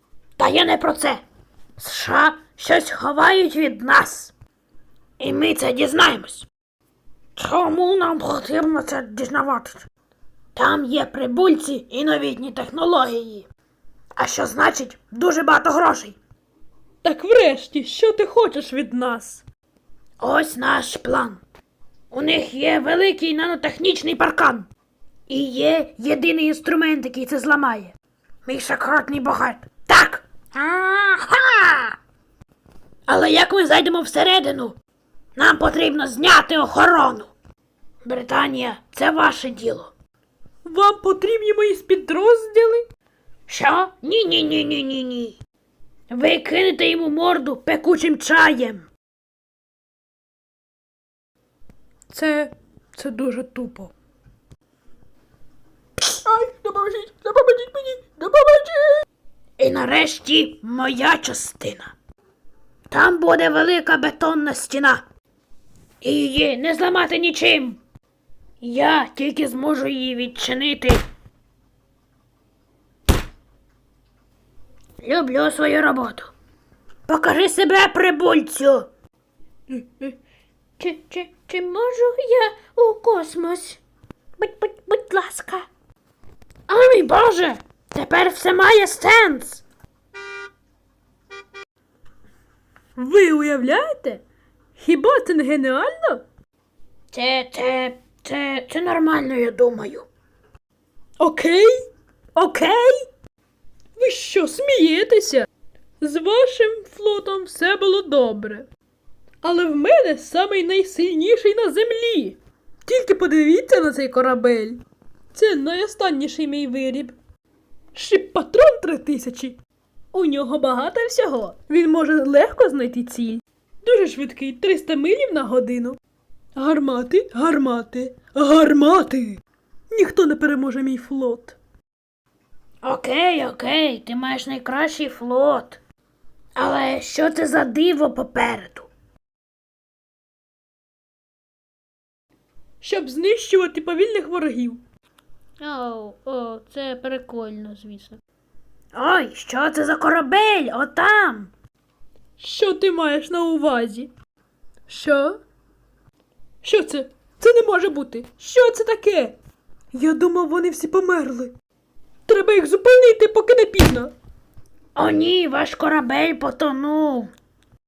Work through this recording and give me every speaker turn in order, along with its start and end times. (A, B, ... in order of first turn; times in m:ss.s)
0:00.4-0:01.2 A
0:01.8-0:04.3 A
0:05.2-0:06.5 A
0:07.4-0:09.8 A
0:10.5-0:13.5 A
0:14.2-0:16.2 A
0:17.0-0:19.4 B
0:20.2-0:21.4 A
0:22.1-0:24.7 A
0:25.3-0:32.0 A
0:33.1-0:34.8 A
0:35.4-0:37.3 A
0:38.0-0:39.9 A
0:40.6-0:42.8 B
0:43.5-0:45.4 A
0:46.1-0:48.9 A
0:52.1-0:53.9 B
0:56.1-0:59.0 B
0:59.6-1:01.9 A
1:02.9-1:05.0 A
1:06.0-1:07.8 A
1:08.6-1:11.0 A
1:15.0-1:16.3 A
1:17.1-1:18.9 A
1:19.7-1:20.1 A
1:20.8-1:23.8 A
1:24.4-1:25.7 A
1:26.7-1:29.6 A
1:33.0-1:34.2 B
1:34.8-1:36.2 B
1:37.1-1:40.1 A
1:41.2-1:41.7 B
1:42.3-1:43.0 B
1:44.0-1:45.5 B
1:46.0-1:48.7 B
1:49.4-1:54.8 B
1:55.3-1:57.1 B
1:57.9-1:59.6 B
2:00.1-2:06.0 B
2:06.6-2:11.6 B
2:12.8-2:15.8 A
2:16.5-2:18.9 A
2:22.8-2:24.8 B
2:25.6-2:28.2 A
2:28.9-2:31.5 A
2:32.4-2:34.1 B
2:34.9-2:35.4 B
2:36.6-2:39.4 B
2:39.9-2:41.5 B
2:42.3-2:44.1 B
2:44.9-2:47.3 A